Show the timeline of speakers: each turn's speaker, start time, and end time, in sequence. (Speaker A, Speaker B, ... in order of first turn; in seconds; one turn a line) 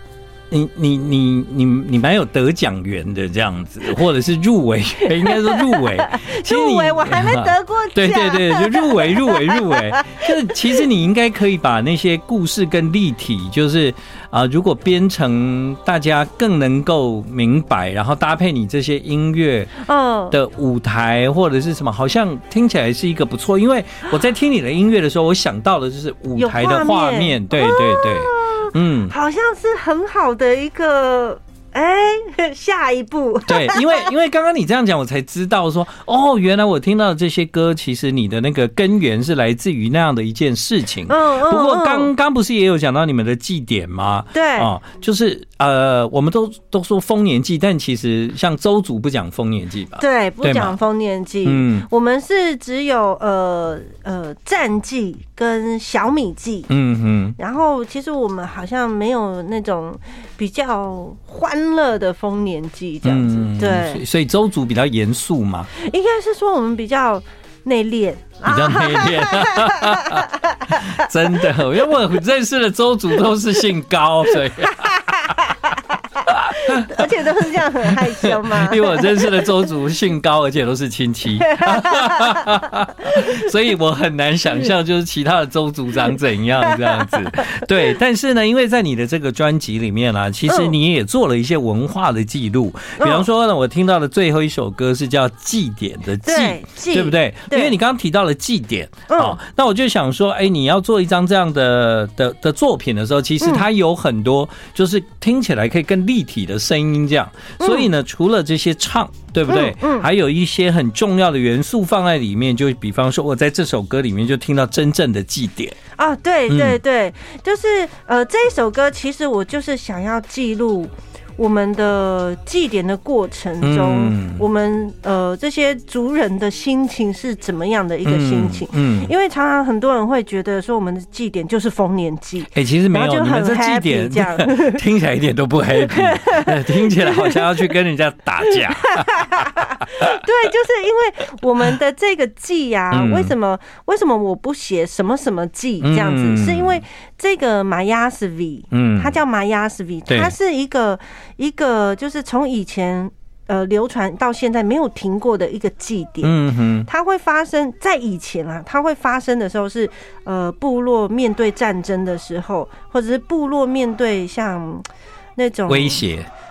Speaker A: 0.5-19.7
Speaker B: 5.2-9.9
Speaker B: 19.8-20.4
Speaker A: 20.3-29.1
Speaker B: 26.4-34.1
Speaker A: 33.5-50.8
Speaker B: 41.1-42.1
Speaker B: 44.3-44.7
Speaker B: 50.0-56.7
Speaker A: 51.5-51.9
Speaker A: 56.7-57.4
Speaker B: 57.4-64.0
Speaker A: 63.0-65.7
Speaker B: 65.7-71.8
Speaker A: 68.5-75.5
Speaker B: 74.5-76.0
Speaker A: 76.2-115.8
Speaker B: 76.5-79.5
Speaker B: 81.4-82.6
Speaker B: 83.1-83.4
Speaker B: 86.6-87.7
Speaker B: 90.5-90.8
Speaker B: 93.0-93.3
Speaker B: 96.2-97.8
Speaker B: 99.1-99.4
Speaker B: 107.6-107.9
Speaker B: 109.5-110.1
Speaker B: 116.0-134.8
Speaker A: 116.5-116.8
Speaker A: 123.6-124.4
Speaker A: 128.1-129.1
Speaker A: 132.5-140.2
Speaker B: 135.8-137.6
Speaker B: 138.5-166.0
Speaker A: 142.9-143.3
Speaker A: 145.8-146.8
Speaker A: 148.7-149.2
Speaker A: 156.2-156.9
Speaker A: 165.7-166.3